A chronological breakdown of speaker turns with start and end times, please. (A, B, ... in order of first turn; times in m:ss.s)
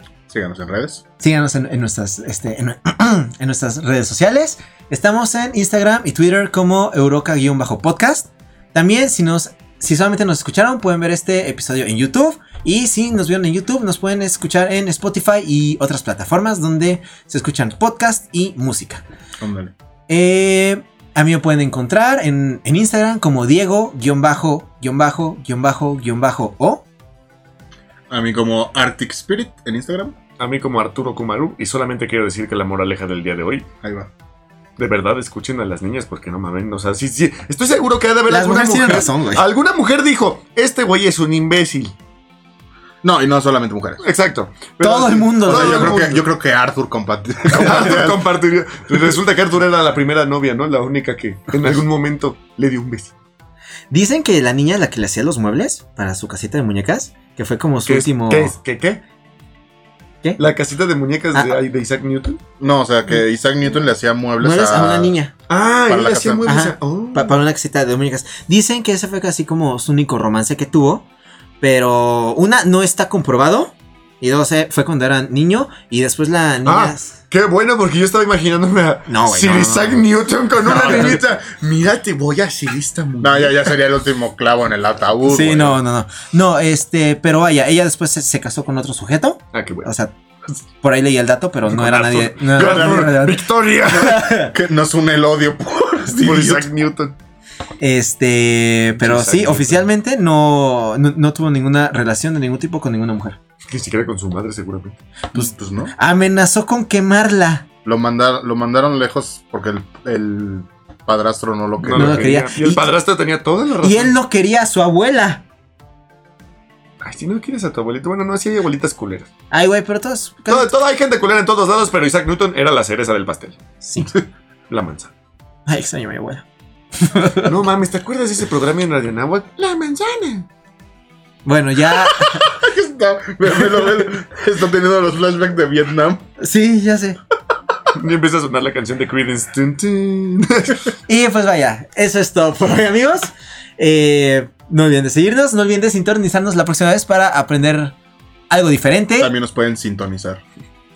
0:00.3-0:01.0 A
0:01.2-0:19.0 B
0:19.4-0:19.7 A
0:20.1-0:26.8 B
0:28.1-0:30.2 A
0:30.4-0:33.6 C
0:33.8-0:34.1 A
0:34.8-0:41.9 C
0:38.3-0:39.4 B
0:43.0-0:44.0 A
0:44.0-0:46.3 C
0:44.8-0:46.1 B
0:45.4-0:48.2 A
0:47.5-0:53.1 C
0:53.9-0:58.6 B
0:57.9-0:59.0 C
1:00.4-1:02.4 C
1:02.6-1:05.1 A
1:04.4-1:05.3 B
1:05.5-1:07.4 C
1:05.9-1:06.5 A
1:06.5-1:11.1 B
1:11.6-1:17.1 B
1:16.7-1:23.7 C
1:19.1-1:20.0 B
1:20.6-1:21.2 B
1:20.7-1:21.2 A
1:23.2-1:25.8 A
1:25.3-1:30.1 B
1:29.5-1:29.9 C
1:30.8-1:34.5 B
1:31.7-1:34.3 C
1:32.6-1:33.1 A
1:34.0-1:36.7 A
1:36.2-1:37.2 C
1:37.8-1:43.4 B
1:39.0-1:39.9 C
1:43.7-1:45.0 C
1:45.3-1:45.9 A
1:45.4-1:47.6 B
1:47.8-1:52.3 A
1:51.8-1:54.1 C
1:51.9-1:52.9 B
1:53.8-1:55.4 B
1:57.0-1:59.3 C
1:59.5-2:00.7 B
2:00.5-2:03.6 C
2:03.8-2:04.1 B
2:04.7-2:05.1 C
2:05.7-2:06.4 B
2:07.0-2:07.5 B
2:07.4-2:10.5 C
2:11.4-2:12.5 B
2:12.3-2:16.3 A
2:16.4-2:17.2 B
2:17.9-2:20.9 C
2:21.1-2:28.0 B
2:28.5-2:29.3 B
2:29.2-2:30.4 A